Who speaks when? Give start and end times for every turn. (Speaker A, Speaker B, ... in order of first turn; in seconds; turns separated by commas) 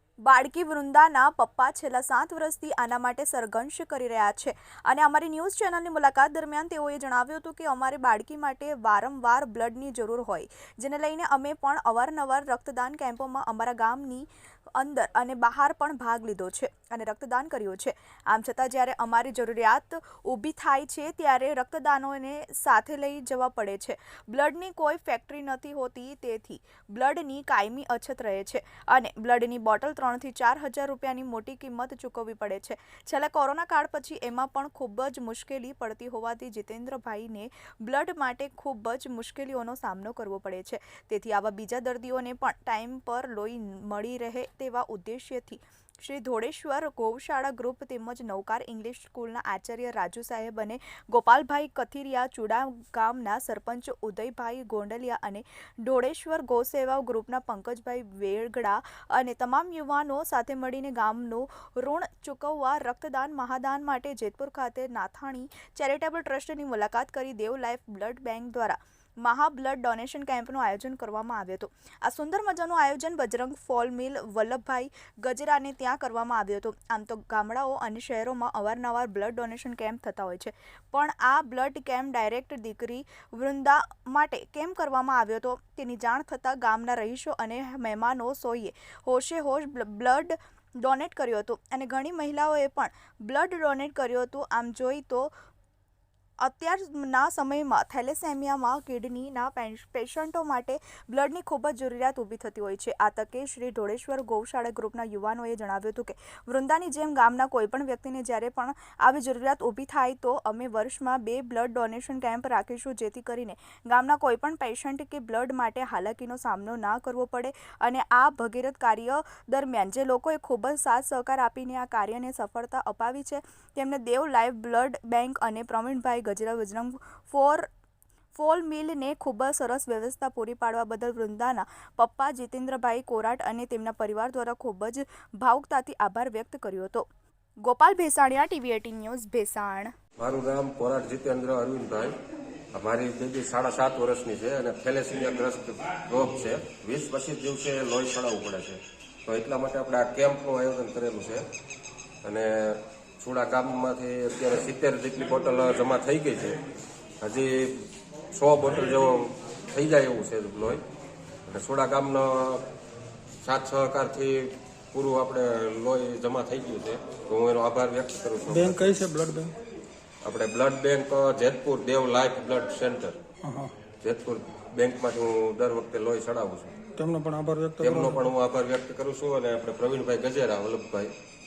Speaker A: 0.2-95.3, Speaker A: 96.4-127.7, Speaker A: 128.3-137.1, Speaker A: 137.6-139.9, Speaker B: 140.2-142.2, Speaker B: 142.7-151.4, Speaker B: 152.2-156.6, Speaker B: 157.2-160.8, Speaker B: 161.5-162.6, Speaker B: 163.4-169.0, Speaker C: 168.5-169.5, Speaker B: 170.2-173.2, Speaker C: 173.4-173.7, Speaker B: 174.0-176.7, Speaker C: 177.0-178.2, Speaker B: 177.8-181.1